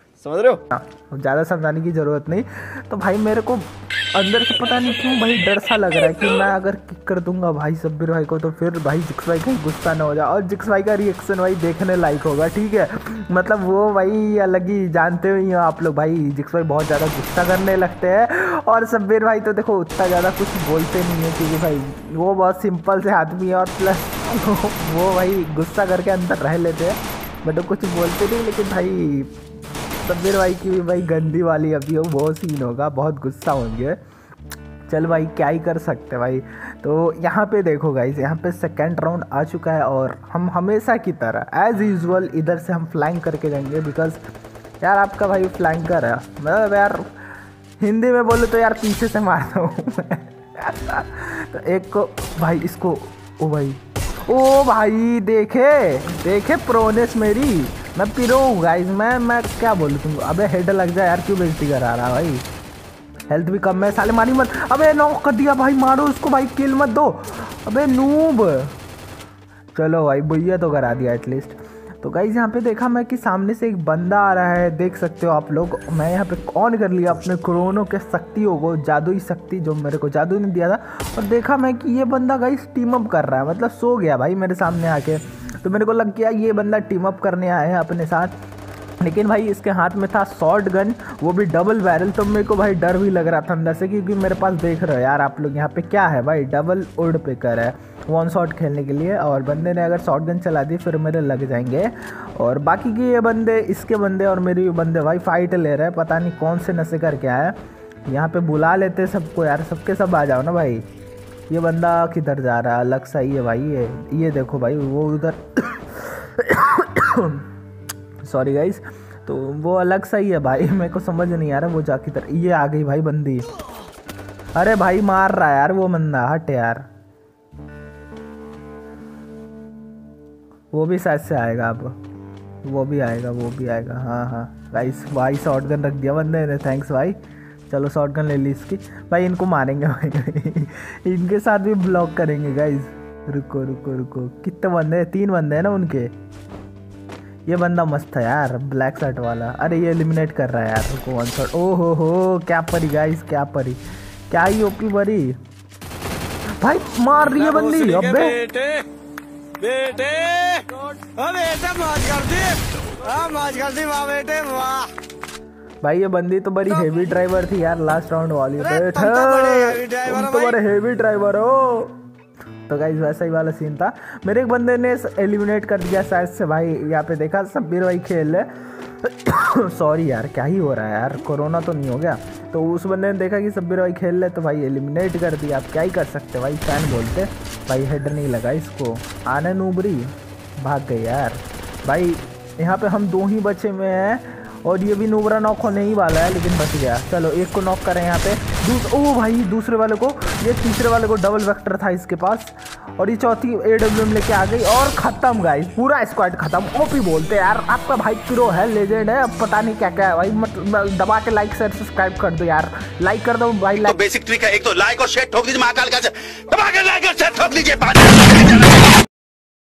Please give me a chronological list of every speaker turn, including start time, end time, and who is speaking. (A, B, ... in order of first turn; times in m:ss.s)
0:00.2-0:00.6 A
0:00.8-0:29.3 B
0:30.0-0:34.0 B
0:34.9-0:44.2 B
0:44.8-0:47.1 B
0:47.8-1:02.4 B
1:03.3-1:08.7 B
1:09.8-1:28.3 B
1:29.0-1:47.6 B
1:48.1-1:50.8 B
1:51.5-1:57.5 B
1:58.2-2:03.5 B
2:04.6-2:06.8 B
2:10.7-2:12.0 B
2:12.6-2:17.2 B
2:17.7-2:26.1 B
2:27.5-2:35.4 B
2:36.6-2:38.4 B
2:37.4-2:38.8 C
2:39.6-2:42.6 C
2:43.0-2:43.9 A
2:43.2-2:44.9 C
2:45.8-2:52.0 B
2:48.8-2:50.4 C
2:52.7-3:34.0 B
3:33.8-3:39.0 A